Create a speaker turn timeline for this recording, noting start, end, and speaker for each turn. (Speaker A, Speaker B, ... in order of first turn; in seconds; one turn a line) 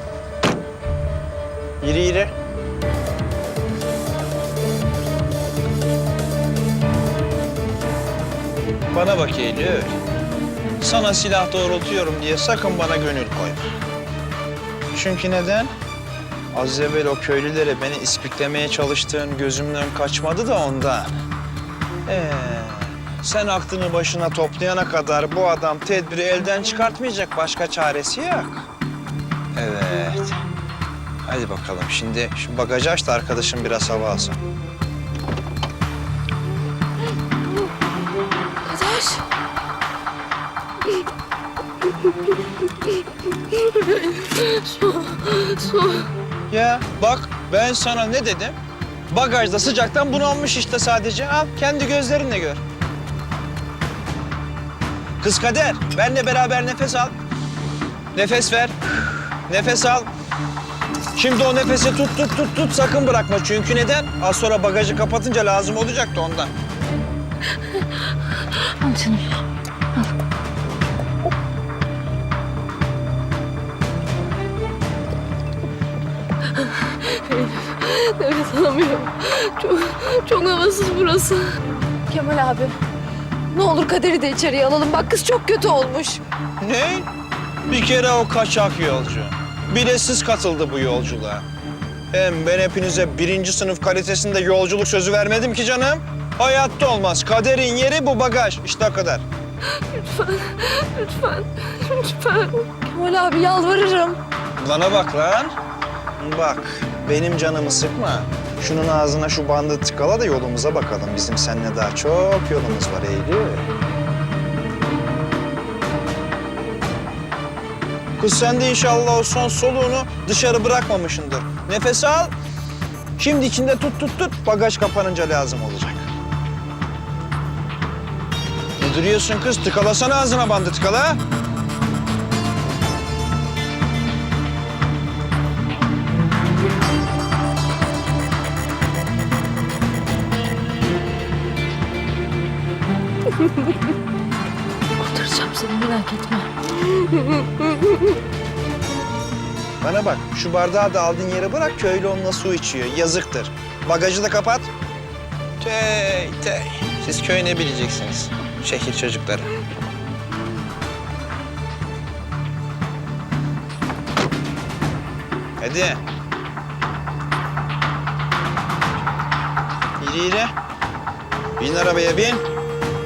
Speaker A: 1.8-2.3
Speaker A: 8.9-9.9
Speaker A: 10.8-13.7
Speaker A: 14.9-15.7
Speaker A: 16.5-21.1
Speaker A: 22.1-28.7
Speaker A: 29.5-30.4
Speaker A: 31.2-34.4
Speaker B: 38.6-39.2
Speaker B: 43.5-46.1
Speaker A: 46.5-48.6
Speaker A: 49.1-52.6
Speaker A: 55.2-57.1
Speaker A: 58.1-60.1
Speaker A: 61.1-66.5
Speaker B: 68.6-69.4
Speaker B: 76.5-81.5
Speaker B: 82.1-82.8
Speaker B: 83.5-86.2
Speaker A: 86.6-87.1
Speaker A: 87.7-91.4
Speaker A: 92.1-99.2
Speaker B: 99.7-104.2
Speaker A: 104.6-105.5
Speaker A: 106.2-113.7
Speaker A: 118.2-122.3
Speaker A: 123.2-126.1
Speaker A: 128.8-131.2
Speaker B: 145.0-148.0
Speaker A: 149.8-154.7
Speaker A: 155.6-159.5
Speaker A: 165.6-166.0
Speaker A: 170.0-170.5
Speaker A: 171.6-172.4